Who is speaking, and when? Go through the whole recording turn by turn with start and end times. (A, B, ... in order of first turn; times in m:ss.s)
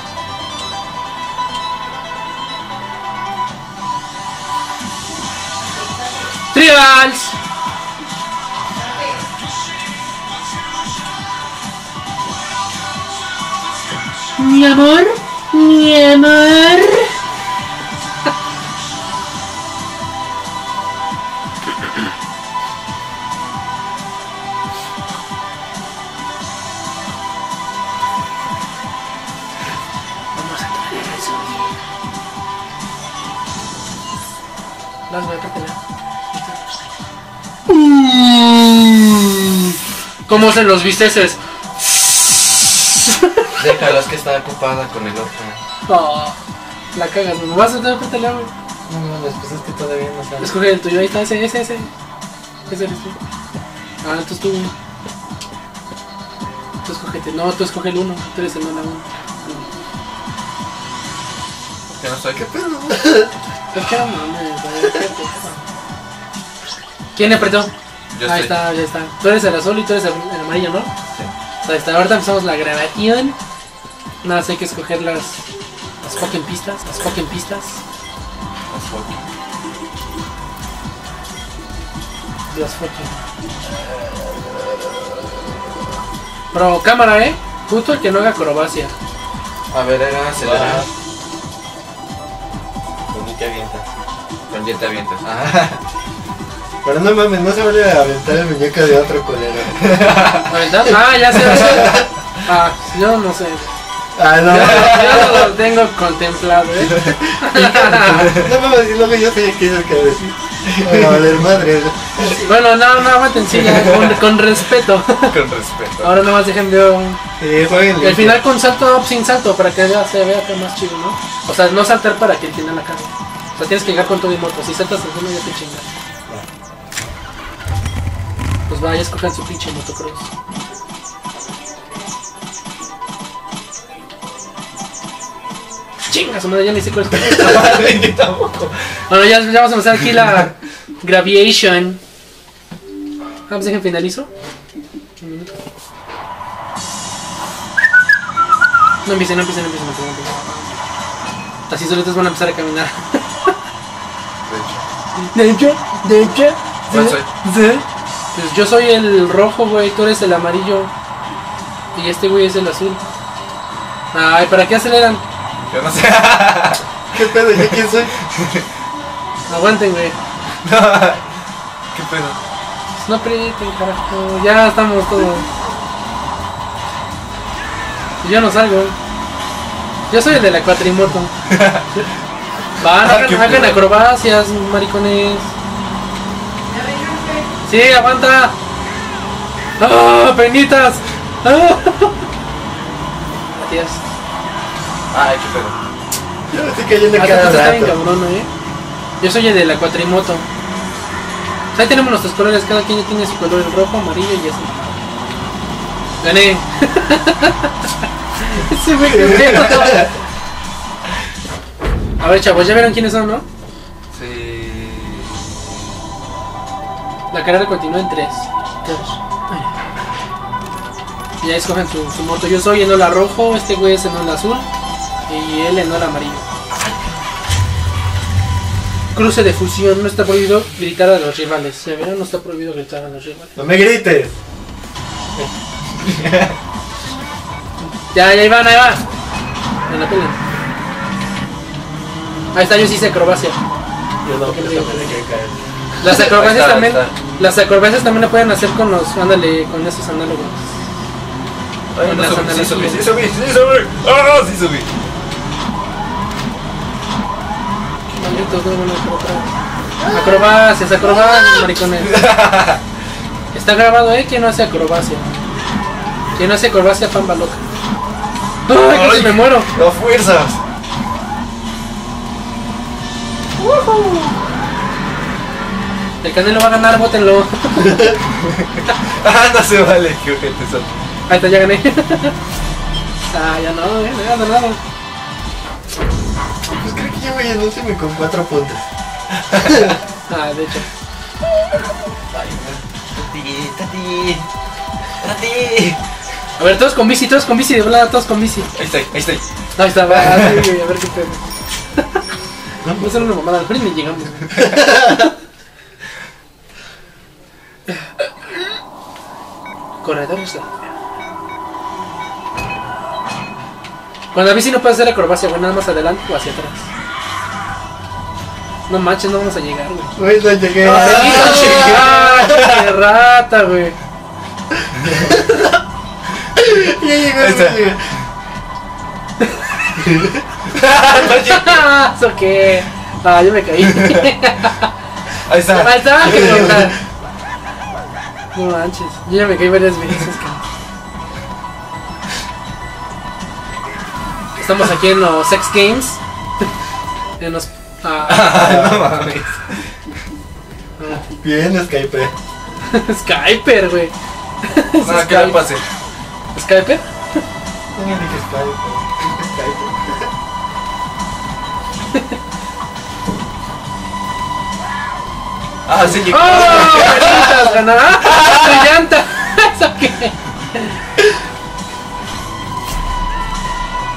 0:06.5-0:07.3 A
0:14.4-0:17.1 A
0:30.3-0:31.7 A
0:35.1-0:35.8 A
0:36.3-0:36.6 A
0:37.7-0:39.6 A
0:40.3-0:41.4 A
0:43.1-0:43.5 A
0:43.6-0:45.6 B
0:45.9-0:46.4 A
0:46.9-0:48.5 A
0:48.9-0:50.5 C
0:50.4-0:51.9 A
0:52.7-0:53.2 A
0:54.0-0:54.7 A
0:56.8-0:59.7 A
1:01.9-1:02.4 B
1:02.3-1:03.3 C
1:03.7-1:05.6 A
1:07.2-1:07.7 A
1:08.1-1:08.6 B
1:08.2-1:10.9 A
1:11.6-1:13.4 A
1:14.2-1:15.4 A
1:16.0-1:17.8 A
1:18.7-1:19.3 B
1:22.5-1:23.2 A
1:26.5-1:28.9 A
1:29.7-1:30.9 B
1:30.4-1:30.9 C
1:33.1-1:33.7 B
1:33.1-1:33.8 C
1:34.5-1:35.8 B
1:36.8-1:39.9 C
1:39.9-1:40.5 B
1:40.5-1:43.7 A
1:41.4-1:42.0 C
1:44.2-1:45.5 C
1:44.5-1:48.3 A
1:44.8-1:45.2 B
1:47.5-1:52.4 C
1:48.0-1:48.5 B
1:50.9-1:51.2 B
1:52.2-1:55.3 A
1:53.5-1:54.3 B
1:55.2-1:56.1 B
1:56.0-1:57.2 A
1:57.4-1:58.4 C
1:58.0-2:05.9 A
2:08.7-2:10.3 A
2:16.1-2:17.8 A
2:17.1-2:18.8 B
2:19.1-2:22.0 A
2:23.5-2:24.3 A
2:25.2-2:25.5 A
2:29.0-2:30.7 A
2:31.7-2:33.5 A
2:34.4-2:34.8 B
2:35.2-2:40.9 A
2:36.9-2:37.3 B
2:41.9-2:43.0 A
2:44.1-2:45.2 A
2:45.7-2:46.8 B
2:47.1-2:48.1 C
2:47.5-2:48.6 B
2:49.5-2:50.2 A
2:50.6-2:51.2 B
2:51.9-2:52.4 B
2:53.0-2:55.4 A
2:58.2-2:59.0 A
3:00.1-3:01.3 A
3:01.5-3:01.9 B
3:02.8-3:05.5 A
3:02.9-3:03.8 B
3:07.6-3:08.5 A
3:09.8-3:12.2 A
3:13.6-3:14.0 A
3:15.1-3:15.8 B
3:16.5-3:18.0 C
3:17.1-3:18.5 A
3:19.2-3:20.5 A
3:21.7-3:25.0 A
3:26.2-3:27.8 A
3:28.4-3:30.2 A
3:29.0-3:30.1 C
3:32.2-3:33.4 A
3:34.1-3:35.7 B
3:37.3-3:39.7 A
3:41.4-3:44.7 A
3:45.3-3:46.4 A
3:46.7-3:47.1 B
3:49.1-3:53.5 A
3:53.6-3:54.3 C
3:56.1-3:56.5 B
3:58.1-3:59.0 A
3:59.9-4:00.4 A
4:02.5-4:03.6 A
4:04.2-4:05.5 C
4:04.4-4:05.2 A
4:06.0-4:10.6 A
4:06.1-4:07.1 B
4:11.9-4:14.9 B
4:12.0-4:13.1 A
4:18.2-4:19.5 A
4:20.0-4:20.5 C
4:20.1-4:22.2 A
4:22.0-4:22.8 B
4:23.5-4:25.3 A
4:26.4-4:27.6 A
4:28.7-4:29.7 A
4:28.8-4:30.6 B
4:33.6-4:34.4 B
4:36.2-4:38.1 A
4:37.8-4:38.1 C
4:38.4-4:40.9 B
4:41.3-4:42.4 A
4:43.3-4:44.8 A
4:46.7-4:48.8 C
4:49.5-4:49.9 B
4:50.3-4:50.9 A
4:52.3-4:54.5 B
4:55.2-4:56.0 B
4:56.6-4:58.7 A
4:58.7-4:59.4 B
4:59.8-5:01.4 A
5:00.1-5:00.7 B
5:02.8-5:03.3 C
5:03.0-5:04.7 A
5:04.6-5:05.3 C
5:07.9-5:08.3 A
5:10.0-5:10.8 A
5:14.3-5:16.9 A
5:18.9-5:20.1 A
5:20.2-5:22.1 C
5:20.8-5:22.8 B
5:20.9-5:24.0 A
5:25.0-5:25.7 C
5:26.6-5:28.1 C
5:27.4-5:27.8 B
5:29.9-5:30.4 C
5:30.7-5:31.8 B
5:31.1-5:34.9 A
5:35.4-5:36.9 B
5:35.7-5:37.0 A
5:36.2-5:36.8 C
5:38.5-5:40.6 A
5:44.6-5:46.2 A
5:47.4-5:48.6 A
5:48.2-5:49.8 B
5:48.5-5:49.1 C
5:51.0-5:51.2 A
5:51.3-5:52.3 C
5:52.9-5:55.6 A
5:55.0-5:55.8 B
5:56.5-5:57.0 A
5:58.0-6:00.3 C
6:05.9-6:07.7 B
6:06.2-6:11.0 A
6:06.9-6:07.7 C
6:08.2-6:08.9 B